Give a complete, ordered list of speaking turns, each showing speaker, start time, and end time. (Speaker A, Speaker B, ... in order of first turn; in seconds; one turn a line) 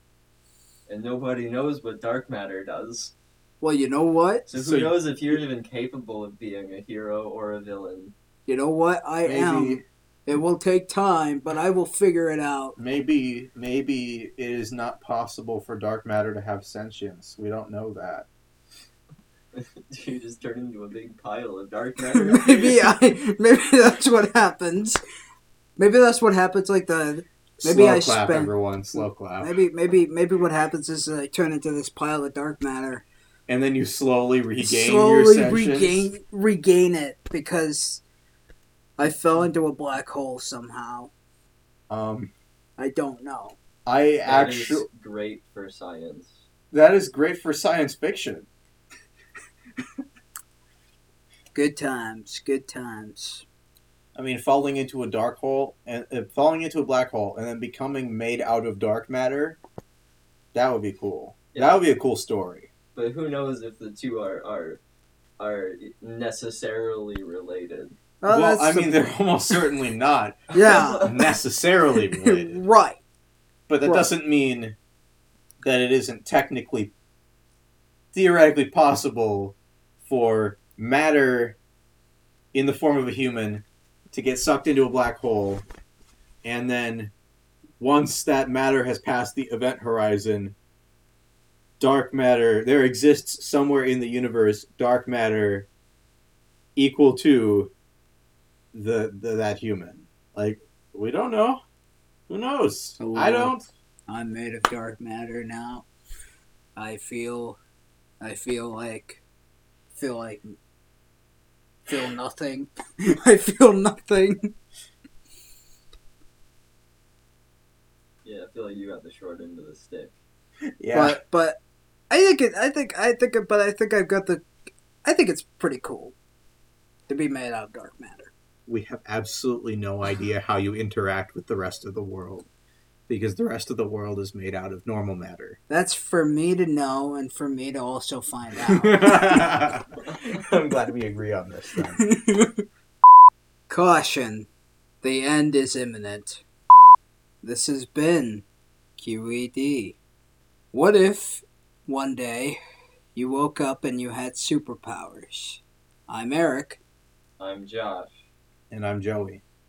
Speaker A: 0.9-3.1
Speaker B: 3.6-4.5
Speaker A: 4.5-8.1
Speaker C: 4.5-5.0
Speaker B: 8.5-12.8
Speaker C: 9.2-9.8
Speaker C: 12.8-18.2
Speaker A: 19.5-22.8
Speaker B: 22.1-25.0
Speaker B: 25.8-33.0
Speaker C: 27.6-29.6
Speaker C: 33.5-36.1
Speaker B: 34.6-38.0
Speaker B: 39.0-41.1
Speaker C: 41.9-42.3
Speaker B: 42.8-43.6
Speaker C: 43.9-44.9
Speaker A: 44.2-46.4
Speaker C: 46.7-48.5
Speaker B: 51.5-53.4
Speaker C: 54.1-59.6
Speaker C: 60.5-62.7
Speaker A: 61.5-61.8
Speaker A: 62.9-64.8
Speaker A: 65.4-68.0
Speaker B: 68.2-69.0
Speaker C: 68.3-72.6
Speaker B: 70.5-71.1
Speaker A: 70.5-71.3
Speaker B: 72.2-73.0
Speaker C: 73.7-74.8
Speaker C: 75.6-76.9
Speaker C: 78.1-81.6
Speaker C: 82.5-85.6
Speaker C: 86.4-87.1
Speaker C: 87.8-90.5
Speaker C: 91.8-95.7
Speaker C: 96.8-97.7
Speaker C: 98.7-101.6
Speaker C: 102.3-103.7
Speaker B: 103.0-105.8
Speaker B: 106.8-107.6
Speaker B: 108.2-109.2
Speaker B: 109.9-110.5
Speaker B: 111.9-114.5
Speaker A: 118.2-120.1
Speaker C: 120.8-121.2
Speaker B: 120.9-121.6
Speaker B: 122.1-124.4
Speaker B: 125.0-126.1
Speaker B: 127.1-128.3
Speaker C: 128.7-132.5
Speaker C: 133.1-135.6
Speaker B: 135.7-139.6
Speaker C: 138.8-142.0
Speaker B: 142.0-142.6
Speaker B: 143.7-144.5
Speaker B: 145.0-146.4
Speaker B: 147.4-148.4
Speaker B: 149.0-150.0
Speaker B: 150.7-152.6
Speaker B: 153.1-156.8
Speaker A: 157.4-158.2
Speaker C: 158.7-159.4